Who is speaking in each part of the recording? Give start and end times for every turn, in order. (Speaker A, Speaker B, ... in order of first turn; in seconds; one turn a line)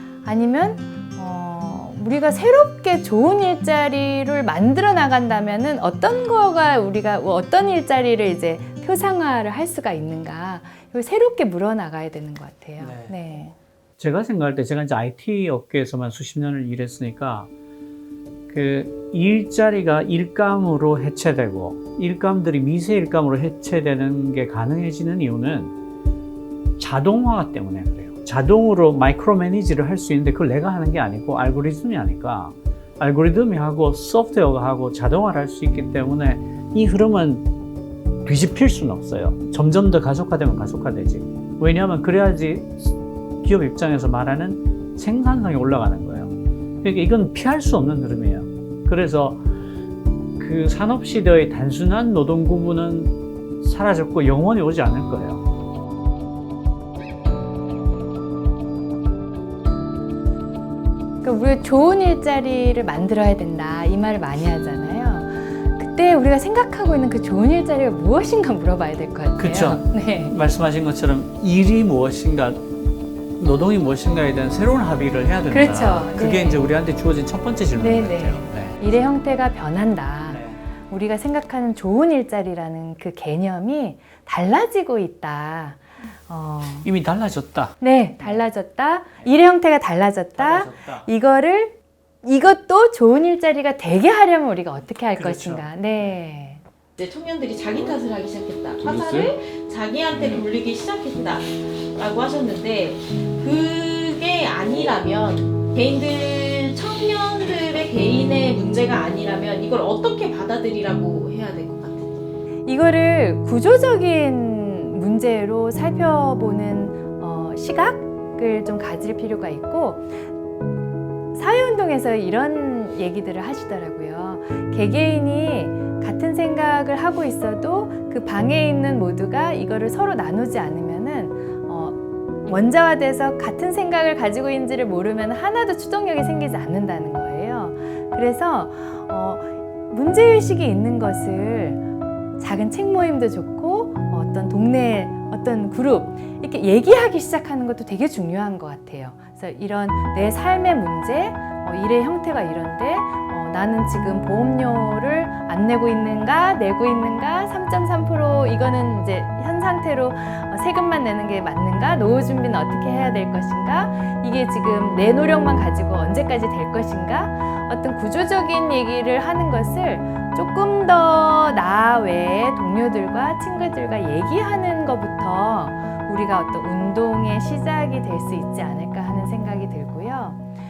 Speaker A: 0.2-13.6
Speaker B: 12.8-13.1
Speaker B: 14.0-17.5
Speaker B: 18.5-25.7
Speaker B: 26.8-37.5
Speaker B: 38.2-49.4
Speaker B: 50.4-55.4
Speaker A: 61.2-70.3
Speaker B: 69.4-72.7
Speaker B: 73.4-78.9
Speaker A: 75.5-76.7
Speaker A: 77.8-86.9
Speaker B: 80.3-80.6
Speaker B: 86.8-88.5
Speaker A: 87.8-96.6
Speaker B: 90.4-91.1
Speaker B: 95.2-96.1
Speaker C: 97.0-112.2
Speaker B: 98.8-99.3
Speaker A: 112.7-120.1
Speaker A: 121.3-141.8
Speaker A: 142.4-180.4